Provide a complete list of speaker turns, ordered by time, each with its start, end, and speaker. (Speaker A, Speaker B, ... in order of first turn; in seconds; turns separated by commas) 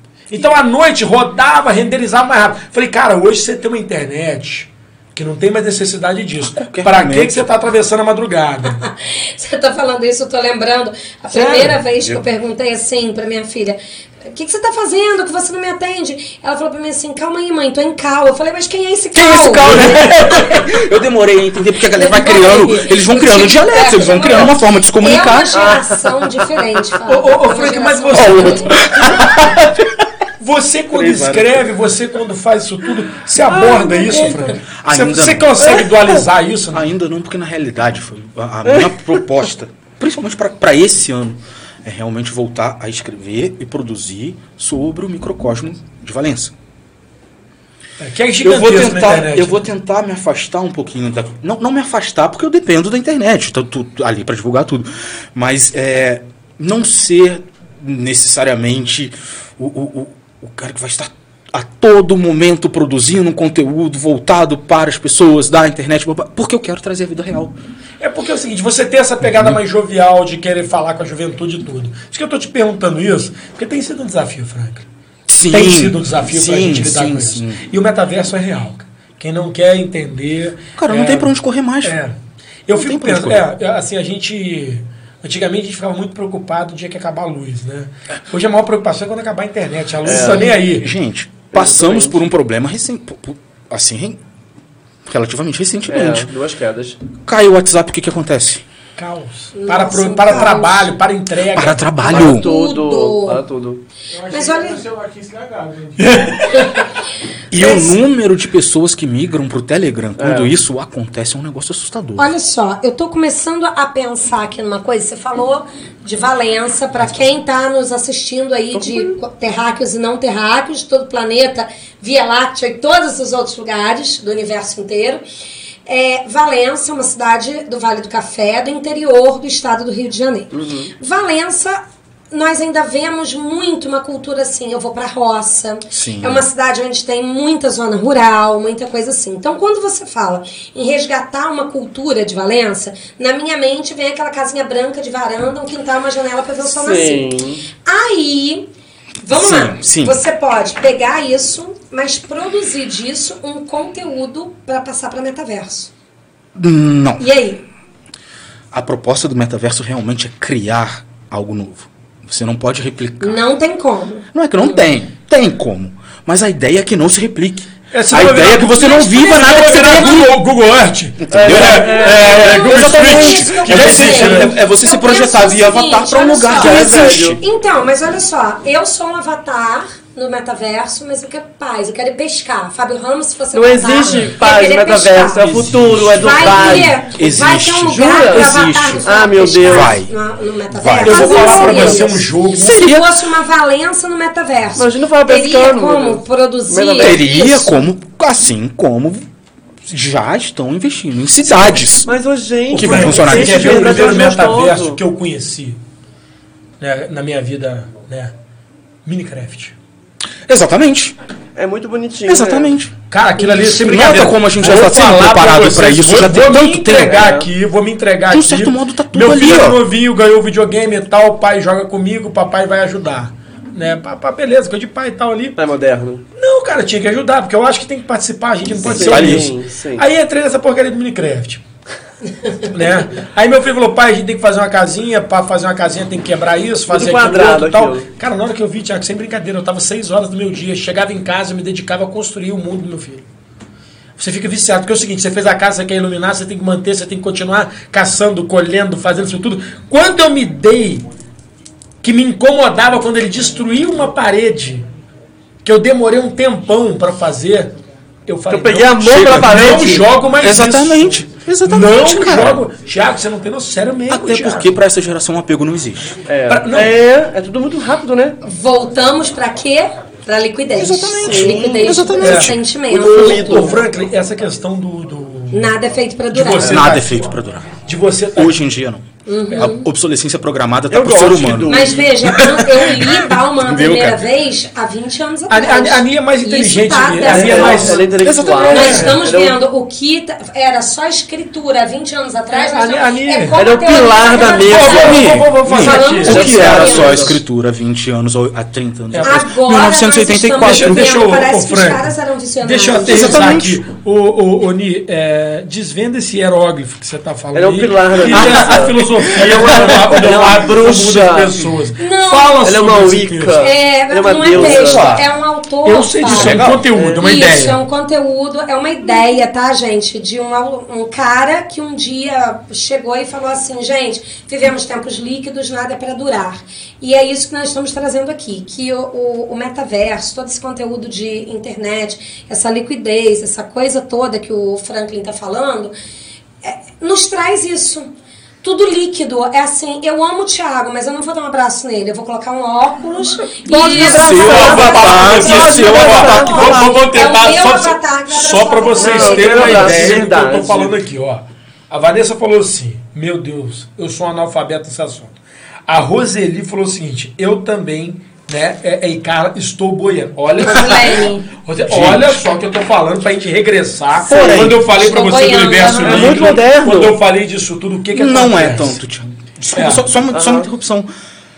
Speaker A: 0.3-8.8, Speaker B: 6.4-7.5, Speaker C: 8.8-20.8, Speaker A: 11.3-11.8, Speaker B: 19.1-25.6, Speaker C: 21.9-28.9, Speaker D: 25.5-26.0, Speaker A: 27.1-28.8, Speaker B: 28.1-29.7, Speaker A: 30.4-36.9, Speaker B: 30.9-31.5, Speaker D: 33.4-34.5, Speaker B: 34.8-35.7, Speaker D: 35.7-36.0, Speaker B: 36.7-46.5, Speaker D: 38.7-39.1, Speaker A: 48.0-49.6, Speaker B: 48.4-67.6, Speaker A: 68.0-74.9, Speaker B: 69.2-69.6, Speaker B: 75.3-77.6, Speaker A: 75.5-82.2, Speaker B: 80.8-82.0, Speaker A: 82.7-90.9, Speaker B: 82.7-83.5, Speaker D: 90.0-90.5, Speaker B: 90.1-94.2, Speaker D: 91.5-92.2, Speaker B: 95.0-96.3, Speaker D: 95.9-97.0, Speaker B: 97.2-98.6, Speaker A: 99.0-102.2, Speaker C: 99.5-100.9, Speaker B: 101.5-102.5, Speaker C: 102.1-103.4, Speaker D: 102.1-103.8, Speaker E: 104.1-106.9, Speaker C: 104.3-104.8, Speaker A: 106.0-106.7, Speaker B: 107.5-112.3, Speaker C: 107.5-108.0, Speaker D: 110.2-110.5, Speaker C: 112.2-125.2, Speaker D: 118.7-119.2, Speaker C: 125.8-148.7, Speaker D: 130.5-130.9, Speaker B: 135.9-136.5, Speaker D: 146.6-147.6, Speaker C: 149.2-155.9, Speaker B: 149.3-150.2, Speaker B: 156.6-157.3, Speaker C: 157.2-157.6, Speaker B: 158.7-163.4, Speaker C: 163.2-164.8, Speaker B: 164.3-170.4, Speaker A: 167.9-174.6, Speaker C: 168.7-170.2, Speaker B: 171.2-177.4, Speaker D: 171.3-174.3, Speaker C: 172.3-197.8, Speaker D: 176.5-177.4, Speaker D: 183.5-187.0, Speaker B: 185.7-189.1, Speaker D: 187.9-189.9, Speaker B: 189.6-190.1, Speaker B: 190.7-191.9, Speaker A: 191.0-192.8, Speaker D: 191.2-192.0, Speaker B: 192.6-193.3, Speaker D: 194.8-197.2, Speaker B: 197.0-199.2, Speaker B: 199.8-202.1, Speaker D: 202.1-205.0, Speaker A: 202.7-205.8, Speaker B: 202.7-204.2, Speaker A: 206.8-208.3, Speaker A: 209.0-209.8, Speaker B: 210.5-211.2, Speaker D: 211.6-212.7, Speaker B: 212.3-217.2, Speaker A: 213.1-225.6, Speaker D: 217.0-217.5, Speaker B: 218.3-219.8, Speaker D: 225.6-226.2, Speaker A: 226.4-231.6, Speaker B: 228.8-229.5, Speaker D: 228.8-230.0, Speaker A: 232.7-243.2, Speaker D: 236.9-238.1, Speaker A: 244.2-251.0, Speaker A: 252.0-254.8, Speaker A: 255.6-257.7, Speaker A: 258.2-264.8, Speaker D: 258.5-260.1, Speaker B: 259.0-262.7, Speaker B: 264.1-266.2, Speaker D: 266.3-268.4, Speaker A: 266.5-266.9, Speaker C: 268.4-273.8, Speaker B: 270.7-272.6, Speaker D: 271.2-272.1, Speaker A: 272.2-272.5, Speaker D: 272.9-273.8, Speaker A: 273.1-275.7, Speaker C: 275.5-277.0, Speaker A: 276.3-278.6, Speaker B: 276.6-277.8, Speaker B: 278.3-284.3, Speaker C: 279.3-279.9, Speaker D: 280.9-282.4, Speaker C: 281.7-288.1, Speaker A: 285.5-288.1, Speaker D: 287.2-289.6, Speaker B: 288.2-289.1, Speaker C: 288.6-297.4, Speaker A: 288.7-289.2, Speaker A: 292.5-293.6, Speaker D: 293.5-297.4, Speaker A: 294.6-296.6, Speaker B: 294.8-301.2, Speaker A: 299.1-299.4, Speaker C: 299.2-303.5, Speaker A: 300.6-313.6, Speaker B: 303.0-303.8, Speaker D: 307.5-311.6, Speaker B: 308.3-308.6, Speaker C: 312.0-312.6, Speaker D: 312.6-315.1, Speaker C: 313.6-316.6, Speaker B: 314.5-315.3, Speaker A: 315.8-317.8, Speaker B: 316.2-316.8, Speaker D: 316.7-317.2, Speaker C: 317.2-335.9, Speaker C: 336.6-338.1, Speaker C: 338.6-350.0, Speaker D: 343.7-347.1, Speaker B: 343.8-346.6, Speaker A: 344.3-355.4, Speaker D: 348.9-350.9, Speaker B: 349.7-350.2, Speaker A: 355.9-369.0, Speaker C: 360.6-361.5, Speaker B: 361.9-362.5, Speaker B: 364.2-364.8, Speaker D: 364.3-364.8, Speaker C: 364.8-366.4, Speaker D: 365.8-367.2, Speaker B: 368.1-371.1, Speaker A: 369.7-370.1, Speaker D: 370.3-370.7